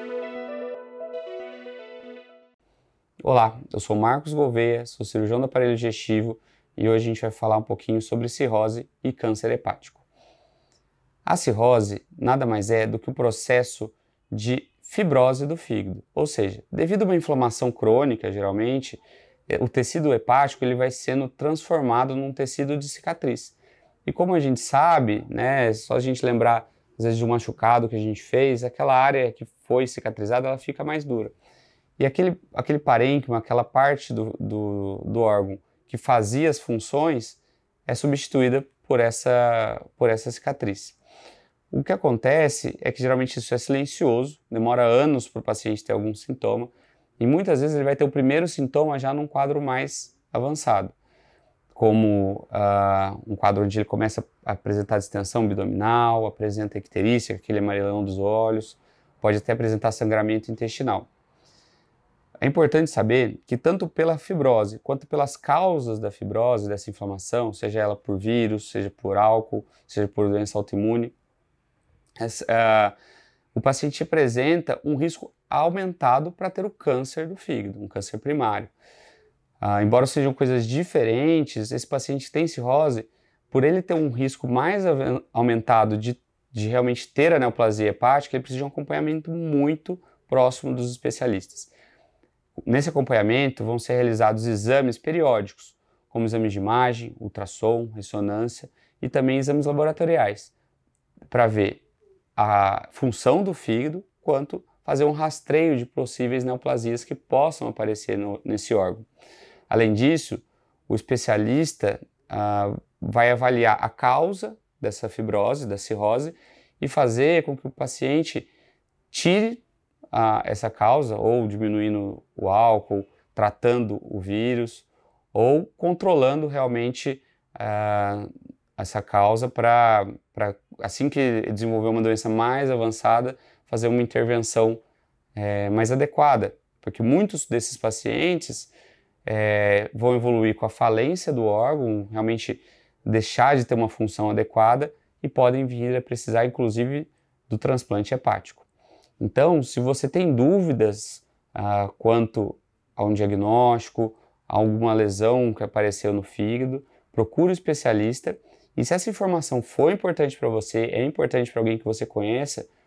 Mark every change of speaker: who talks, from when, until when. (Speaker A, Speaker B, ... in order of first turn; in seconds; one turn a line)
Speaker A: 3.2-10.0
Speaker A: 11.2-31.3
Speaker A: 32.0-41.0
Speaker A: 41.7-50.9
Speaker A: 51.7-61.1
Speaker A: 62.4-71.1
Speaker A: 72.2-72.9
Speaker A: 73.5-78.7
Speaker A: 79.6-91.7
Speaker A: 92.6-100.5
Speaker A: 101.3-101.8
Speaker A: 102.3-109.0
Speaker A: 109.7-118.5
Speaker A: 119.1-134.8
Speaker A: 135.3-138.7
Speaker A: 139.2-148.7
Speaker A: 149.2-162.7